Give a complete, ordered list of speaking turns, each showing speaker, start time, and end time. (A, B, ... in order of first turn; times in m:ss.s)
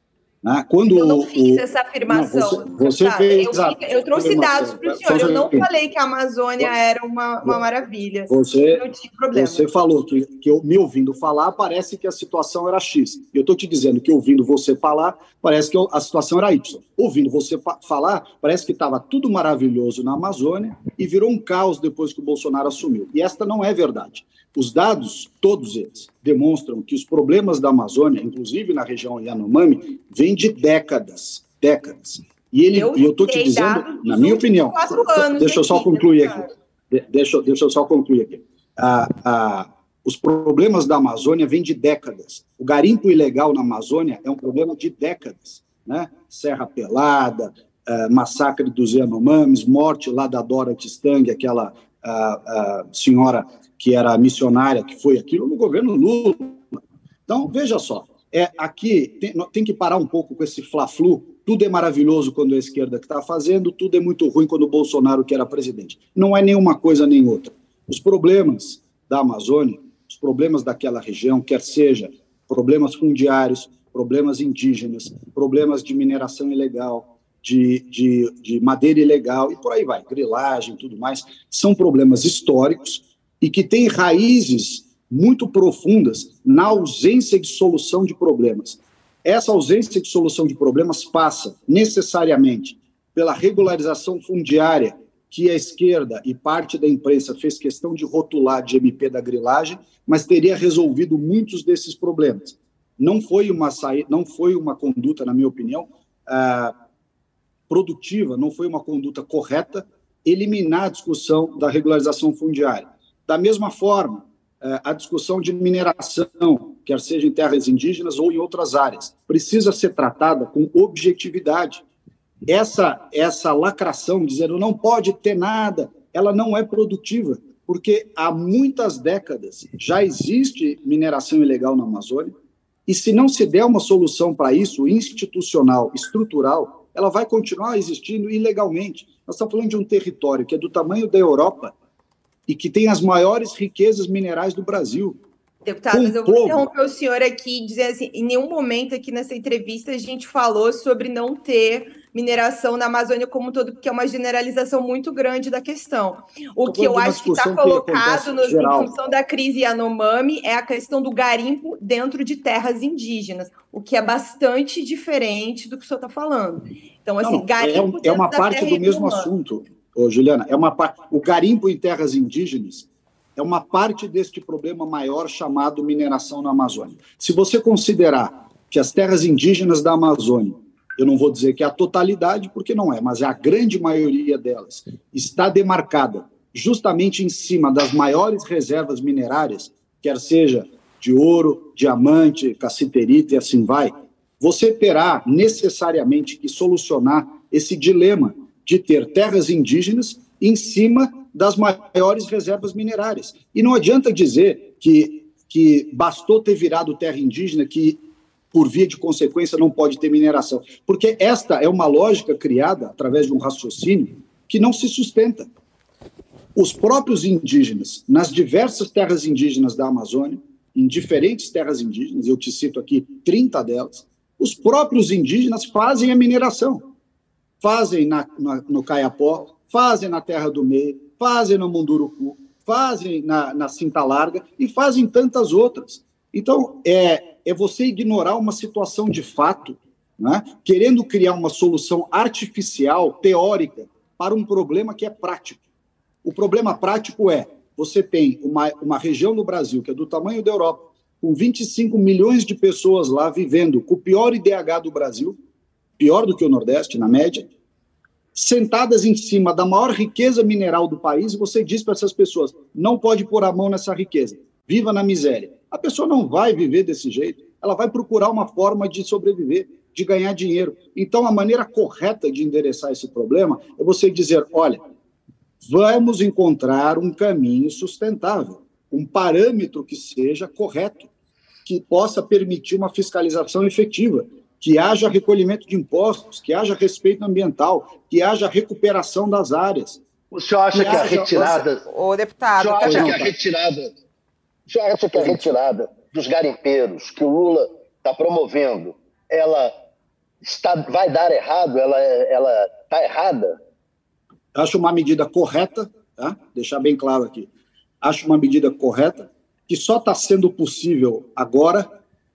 0:00.4-0:05.7 A
0:00.9-0:09.7 B
0:08.3-1:46.8 A
0:32.7-0:36.5 B
1:47.7-2:01.8 A
2:02.5-2:12.3 A
2:12.9-2:21.7 A
2:22.5-2:25.2 A
2:25.6-2:49.3 B
2:25.9-2:26.7 A
2:36.6-2:38.9 A
2:47.2-3:35.5 A
3:36.6-3:46.8 A
3:47.6-4:05.6 A
4:06.2-4:15.4 A
4:16.0-4:17.5 A
4:18.4-4:34.8 A
4:35.6-4:41.1 A
4:41.7-4:50.0 A
4:50.3-4:51.8 C
4:50.7-4:51.5 A
4:50.8-4:53.2 D
4:52.6-4:53.9 C
4:52.8-4:53.3 A
4:54.7-4:59.7 C
4:55.2-4:55.5 A
5:00.4-5:03.6 C
5:04.6-5:07.5 A
5:08.0-5:11.9 A